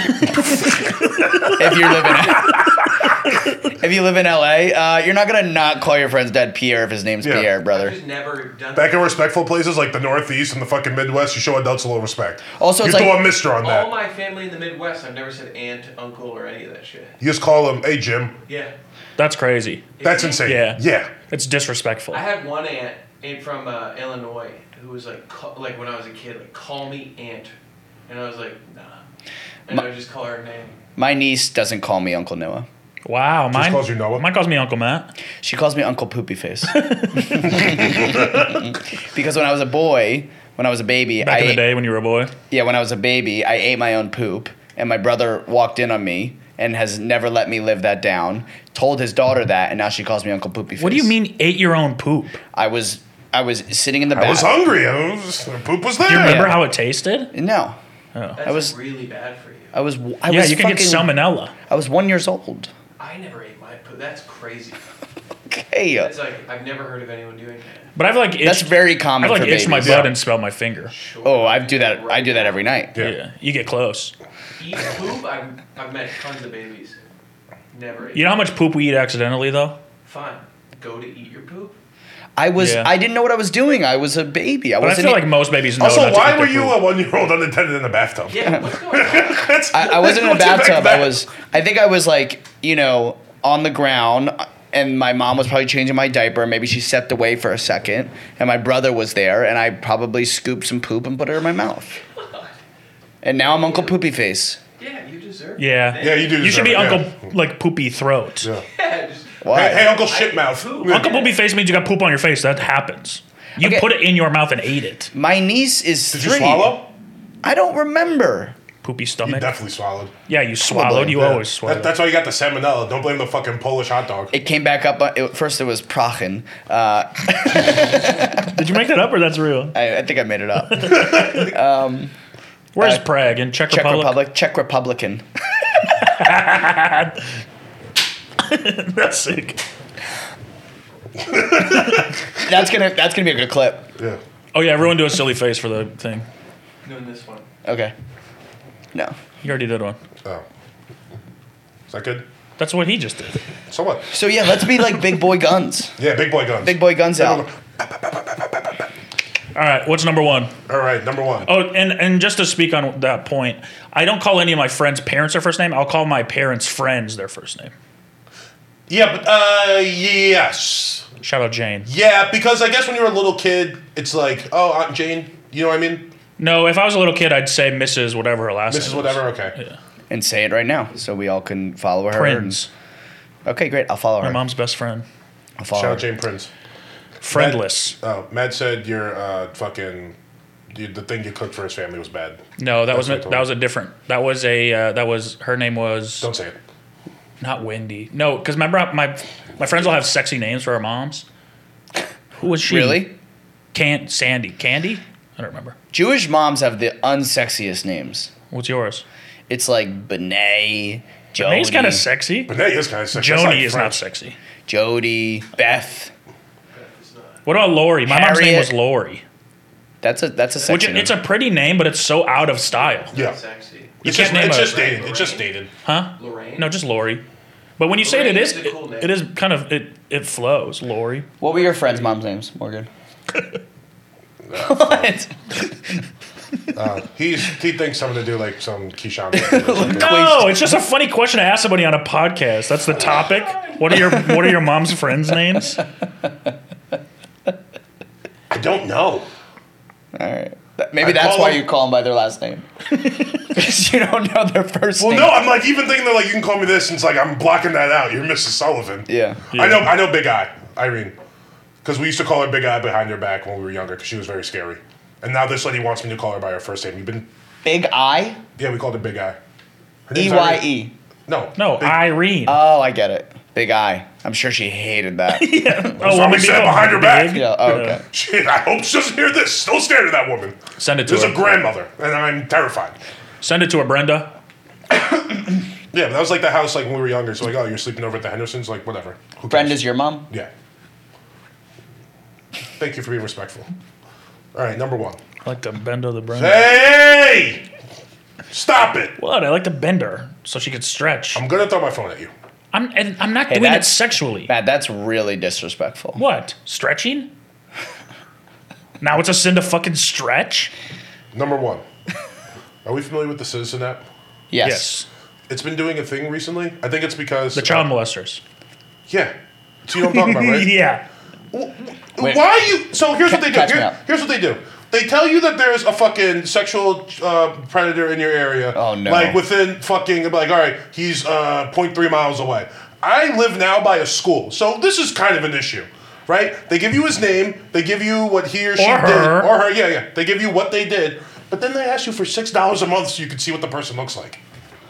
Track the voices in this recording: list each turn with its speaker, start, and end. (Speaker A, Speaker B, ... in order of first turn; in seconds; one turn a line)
Speaker A: 0.1-2.3
Speaker B: 1.4-2.9
Speaker B: 3.6-8.0
Speaker C: 7.2-7.5
Speaker D: 7.7-9.1
Speaker C: 8.8-13.9
Speaker B: 12.6-13.2
Speaker D: 13.6-17.2
Speaker C: 17.2-18.4
Speaker D: 18.5-18.7
Speaker A: 19.2-22.2
Speaker D: 20.0-20.5
Speaker C: 20.0-21.1
Speaker D: 22.1-27.5
Speaker D: 28.1-29.0
Speaker D: 29.7-30.8
Speaker B: 31.0-32.7
Speaker A: 33.0-35.1
Speaker C: 33.5-34.2
Speaker B: 35.4-41.6
Speaker A: 36.7-37.9
Speaker C: 37.4-38.5
Speaker A: 41.2-42.3
Speaker B: 42.5-51.1
Speaker A: 50.8-52.4
Speaker B: 52.5-54.6
Speaker C: 54.1-56.5
Speaker A: 56.0-57.3
Speaker B: 56.2-56.6
Speaker B: 57.3-57.8
Speaker A: 58.1-58.4
Speaker D: 58.4-59.8
Speaker B: 58.4-58.8
Speaker B: 59.7-61.1
Speaker A: 60.3-61.5
Speaker B: 61.7-62.7
Speaker D: 63.0-64.8
Speaker B: 65.5-66.1
Speaker D: 66.0-67.8
Speaker A: 68.0-70.9
Speaker B: 68.4-70.1
Speaker C: 69.8-70.1
Speaker D: 70.9-72.6
Speaker B: 71.2-73.0
Speaker A: 73.0-74.1
Speaker D: 74.6-77.0
Speaker D: 77.7-78.3
Speaker A: 78.1-79.8
Speaker D: 80.0-81.7
Speaker B: 82.4-85.2
Speaker A: 82.6-82.9
Speaker A: 84.8-86.8
Speaker C: 85.8-91.2
Speaker D: 88.3-89.5
Speaker B: 89.7-102.0
Speaker D: 102.2-102.5
Speaker B: 103.2-104.6
Speaker D: 103.4-104.0
Speaker D: 104.8-106.6
Speaker A: 105.6-108.5
Speaker C: 106.0-107.2
Speaker D: 108.7-111.4
Speaker B: 109.4-109.9
Speaker C: 109.5-111.2
Speaker A: 110.8-115.1
Speaker B: 113.6-113.9
Speaker B: 115.1-116.8
Speaker C: 116.1-116.9
Speaker B: 117.4-118.6
Speaker A: 118.8-119.5
Speaker C: 119.2-120.1
Speaker A: 120.3-121.9
Speaker B: 120.6-121.4
Speaker C: 121.6-124.3
Speaker B: 124.3-128.4
Speaker A: 127.5-129.8
Speaker B: 129.7-132.1
Speaker A: 130.7-131.5
Speaker A: 132.8-134.2
Speaker B: 132.8-133.0
Speaker B: 133.7-135.2
Speaker A: 135.9-137.2
Speaker A: 138.4-139.6
Speaker C: 141.2-142.1
Speaker B: 142.4-143.9
Speaker A: 144.5-146.3
Speaker D: 146.8-147.5
Speaker B: 147.7-147.9
Speaker A: 149.4-150.0
Speaker C: 151.9-152.3
Speaker A: 152.6-153.4
Speaker C: 153.7-154.1
Speaker B: 154.1-156.0
Speaker C: 156.0-158.9
Speaker B: 156.6-157.4
Speaker A: 159.5-160.5
Speaker C: 160.7-161.5
Speaker A: 161.5-167.7
Speaker C: 168.9-171.1
Speaker A: 171.2-171.9
Speaker C: 171.9-176.1
Speaker A: 176.4-179.8
Speaker C: 178.7-179.5
Speaker B: 180.1-182.6
Speaker A: 182.1-182.7
Speaker B: 183.5-184.4
Speaker A: 184.2-185.1
Speaker B: 185.6-186.1
Speaker C: 185.7-186.5
Speaker A: 187.2-188.0
Speaker C: 187.3-190.2
Speaker C: 190.7-193.5
Speaker A: 192.6-196.3
Speaker C: 196.2-196.6
Speaker A: 197.4-201.2
Speaker A: 202.4-203.1
Speaker B: 202.7-203.1
Speaker A: 203.7-205.8
Speaker B: 205.9-208.3
Speaker A: 208.5-209.1
Speaker B: 209.5-212.1
Speaker A: 211.4-212.5
Speaker C: 212.5-214.0
Speaker A: 213.1-214.4
Speaker B: 214.7-216.1
Speaker D: 216.7-217.5
Speaker A: 217.5-219.2
Speaker B: 218.1-218.7
Speaker B: 220.0-221.2
Speaker D: 220.6-220.8
Speaker A: 220.7-223.1
Speaker D: 222.7-225.6
Speaker A: 224.0-224.9
Speaker C: 224.0-225.7
Speaker A: 225.8-227.2
Speaker D: 226.2-226.8
Speaker A: 227.8-231.3
Speaker D: 228.0-229.2
Speaker B: 231.4-232.9
Speaker D: 231.4-232.2
Speaker C: 234.5-235.1
Speaker B: 234.6-235.9
Speaker C: 236.7-240.1
Speaker B: 239.3-240.6
Speaker A: 239.8-245.8
Speaker C: 248.5-249.3
Speaker B: 250.1-252.7
Speaker C: 251.0-251.6
Speaker B: 253.4-255.4
Speaker C: 255.0-261.1
Speaker B: 259.1-259.5
Speaker A: 259.5-259.9
Speaker C: 261.8-267.3
Speaker B: 267.6-268.4
Speaker C: 268.6-269.4
Speaker C: 270.1-270.7
Speaker B: 270.1-270.9
Speaker C: 271.3-272.0
Speaker A: 271.6-272.6
Speaker B: 272.4-275.9
Speaker A: 275.3-278.0
Speaker C: 276.0-282.9
Speaker B: 277.3-278.0
Speaker A: 280.8-281.6
Speaker A: 283.4-284.3
Speaker C: 285.9-290.5
Speaker B: 289.5-290.3
Speaker C: 292.8-293.7
Speaker C: 294.5-295.2
Speaker A: 295.4-296.7
Speaker C: 296.3-297.6
Speaker C: 298.5-299.2
Speaker A: 299.2-301.4
Speaker C: 301.4-302.3
Speaker A: 302.7-304.5
Speaker B: 303.5-306.2
Speaker A: 306.2-307.3
Speaker A: 309.0-310.7
Speaker C: 311.3-311.9
Speaker C: 312.9-314.0
Speaker B: 314.5-315.0
Speaker A: 314.6-315.1
Speaker C: 315.5-317.9
Speaker A: 317.6-318.4
Speaker C: 319.9-320.7
Speaker A: 320.0-321.1
Speaker C: 321.5-344.4
Speaker B: 323.2-324.0
Speaker B: 328.8-329.4
Speaker A: 338.8-339.5